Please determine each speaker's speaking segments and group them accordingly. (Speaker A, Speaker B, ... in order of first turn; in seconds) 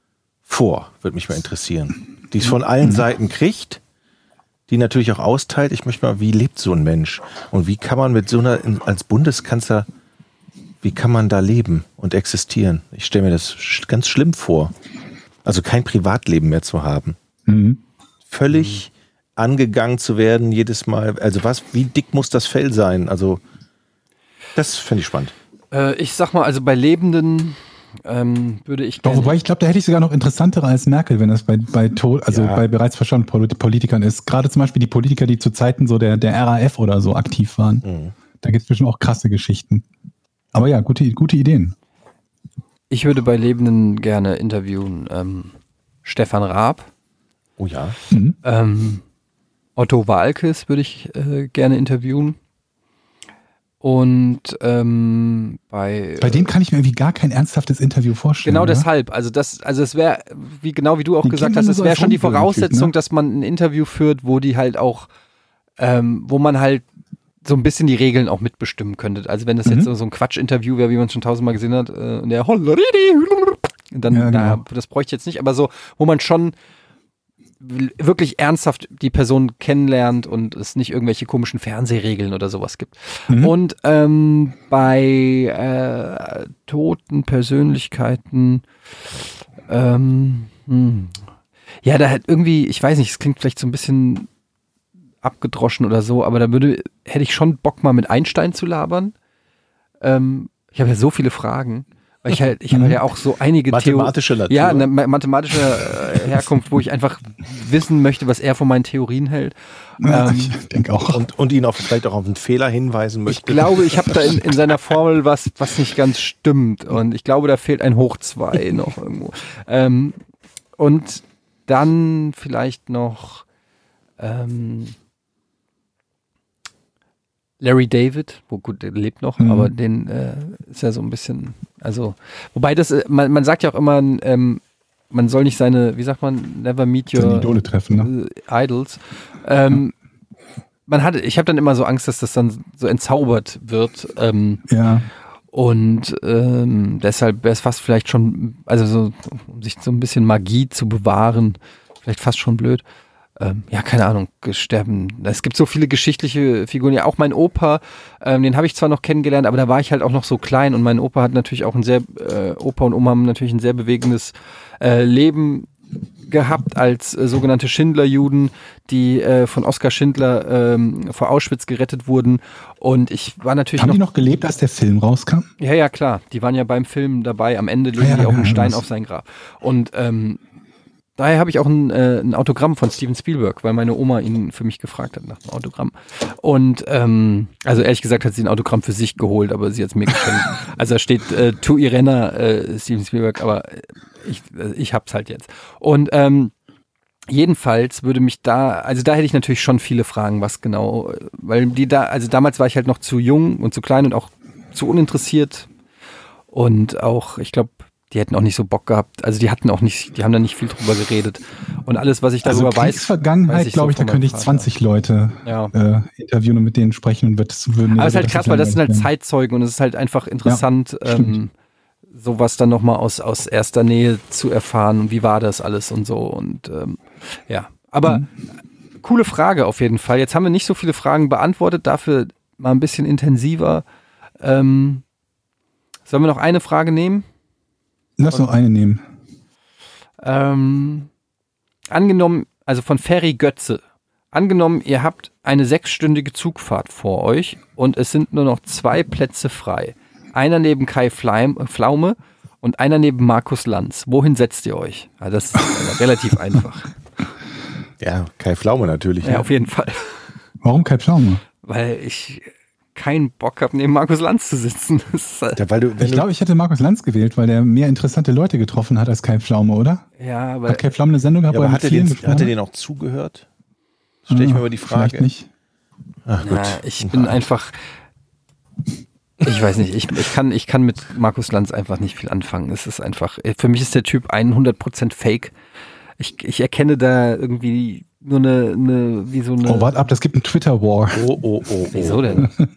Speaker A: 0.5-3.8, 4.7-9.9, 10.8-14.7, 15.4-17.2, 18.3-23.4, 24.6-25.3, 32.3-32.6, 37.8-38.1, 47.6-48.0, 103.7-104.9, 111.0-114.4, 258.0-259.5, 265.6-266.3, 271.5-273.4, 274.3-275.3, 276.3-277.4, 291.1-292.5
Speaker B: 17.5-17.8, 29.0-37.8, 38.4-39.9, 40.5-41.8, 48.1-48.4, 56.2-58.9, 61.2-62.9, 69.7-69.9, 74.1-74.6, 83.3-83.5, 102.7-103.0, 110.0-111.2, 129.4-129.7, 137.2-138.1, 144.7-145.1, 173.8-175.5, 178.0-178.8, 212.4-219.1, 220.4-221.4, 238.2-239.0, 260.6-261.4, 266.0-270.0, 270.7-272.5, 274.3-275.5, 289.6-291.2
Speaker C: 25.7-29.4, 42.9-46.9, 48.4-49.0, 49.8-52.4, 53.8-56.5, 58.4-65.1, 65.8-66.8, 67.4-76.5, 77.6-88.7, 89.7-91.2, 91.8-94.3, 95.2-99.2, 100.0-110.6, 113.3-120.2, 120.8-123.5, 124.2-125.0, 127.6-139.9, 140.9-144.7, 145.5-152.8, 153.4-165.7, 166.3-174.0, 175.6-180.4, 181.2-196.5, 197.3-205.7, 206.5-214.7, 215.4-215.7, 217.9-221.5, 222.1-228.3, 229.0-233.8, 234.4-235.0, 236.1-237.3, 240.2-241.1, 241.9-256.9, 259.2-260.2, 261.6-265.6, 270.2-270.9, 276.4-277.8, 279.4-285.5, 286.2-289.9, 291.9-292.5